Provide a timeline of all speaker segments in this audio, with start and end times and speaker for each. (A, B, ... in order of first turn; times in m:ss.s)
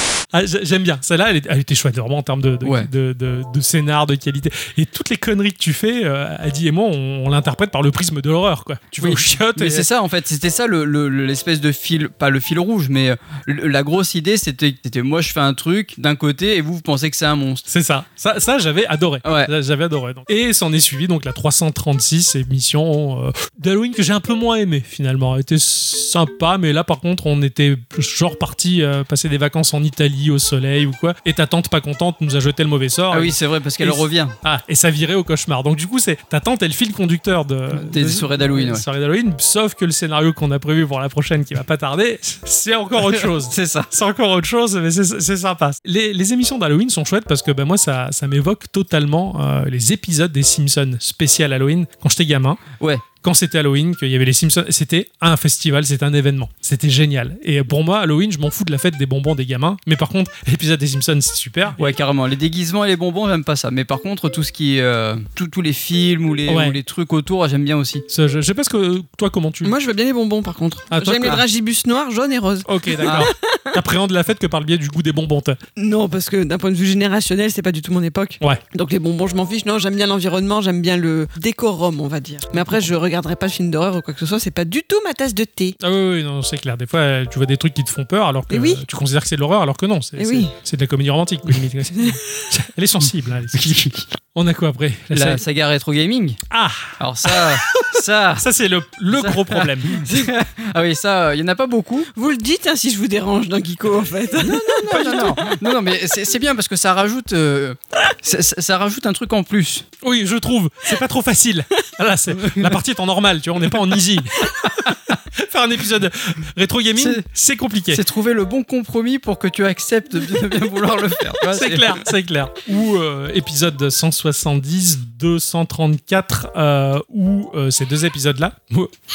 0:00.3-0:09.9 A
0:02.6-0:02.9 B
0:09.0-0:17.7 B
0:17.7-0:52.6 A
0:19.2-0:19.5 B
0:33.1-0:34.4 B
0:37.7-0:38.8 B
0:43.1-0:43.9 B
0:52.8-0:53.0 B
0:53.2-1:01.9 A
1:01.8-1:08.1 B
1:06.5-1:06.8 A
1:08.1-1:09.8 A
1:09.6-1:13.8 C
1:10.9-1:11.4 A
1:12.7-1:15.6 A
1:15.8-1:25.8 C
1:22.5-1:22.9 A
1:25.8-1:35.4 A
1:28.5-1:28.8 C
1:30.2-1:30.5 C
1:33.5-1:34.0 B
1:35.1-1:36.4 B
1:36.5-1:40.0 A
1:37.0-1:38.4 B
1:39.1-1:42.1 B
1:42.2-1:45.5 C
1:44.4-1:49.9 B
1:50.0-1:58.0 A
1:52.3-1:52.8 B
1:57.0-1:57.2 B
1:57.9-2:02.0 B
2:01.4-2:08.9 A